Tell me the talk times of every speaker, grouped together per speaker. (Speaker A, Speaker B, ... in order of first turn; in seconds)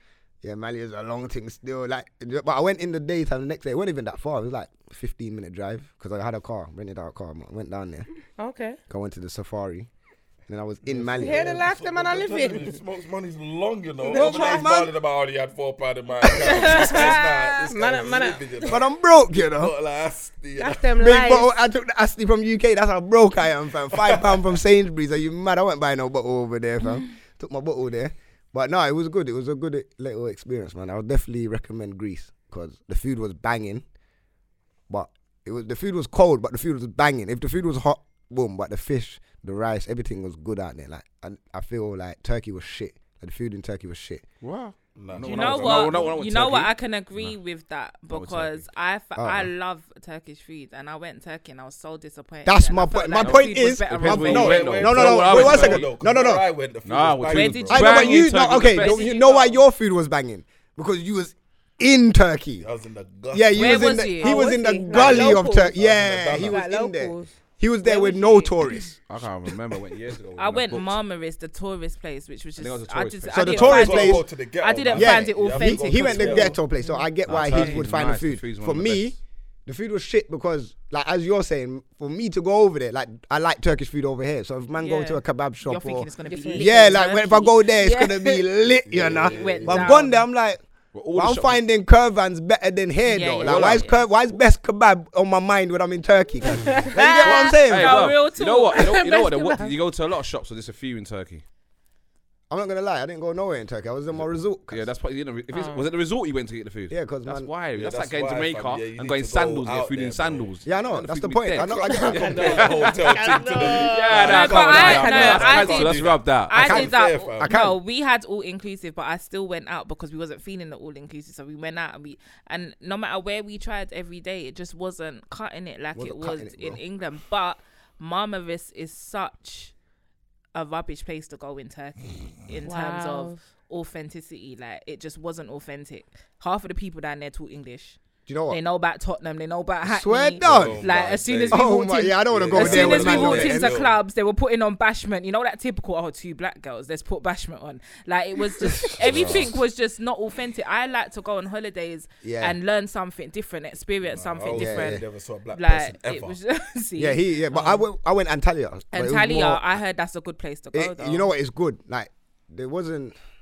Speaker A: 0.4-8.1, 8.9-9.9, 10.5-11.5, 14.0-14.9, 18.6-19.7, 21.0-33.8, 34.9-44.2, 49.1-49.5, 52.5-56.5, 57.7-62.6, 63.3-68.9, 73.3-74.3, 74.9-90.6, 91.1-98.1, 102.5-104.8, 106.9-107.5, 110.6-112.5, 116.6-117.7, 125.9-126.8, 138.3-138.6, 139.8-140.8, 141.5-143.7, 148.9-149.5, 152.2-152.6, 154.5-155.0, 157.0-159.8, 160.7-163.2
Speaker B: 8.3-8.8, 11.2-12.8, 14.0-14.6, 16.4-17.2, 17.7-18.7, 20.6-21.5, 64.1-65.7, 66.4-67.3, 76.8-77.0, 86.3-87.0, 97.2-97.6, 98.7-99.8, 105.5-105.8, 111.9-115.6, 132.6-133.5
Speaker C: 10.8-18.9, 19.4-20.9, 24.0-24.4, 45.0-46.1, 54.1-58.0, 62.6-64.1, 64.9-66.6, 73.6-76.6, 77.3-77.9, 88.9-90.0, 107.7-110.5, 111.6-117.5, 140.4-141.7, 142.2-143.9, 149.2-149.4, 154.0-156.4
Speaker D: 16.5-17.6, 45.2-54.8, 57.3-59.6, 63.5-64.8, 67.8-68.5, 70.4-76.6, 77.5-77.8, 84.8-88.4, 89.3-90.2, 93.0-94.0, 96.5-98.9, 114.1-129.7, 130.5-138.0, 138.5-157.8, 158.9-161.3
Speaker E: 44.4-47.4, 48.1-48.6, 53.2-55.9, 56.8-59.0, 69.0-71.0, 72.6-73.9, 77.3-79.1, 90.9-91.6, 93.4-93.8, 97.7-101.4, 104.7-116.6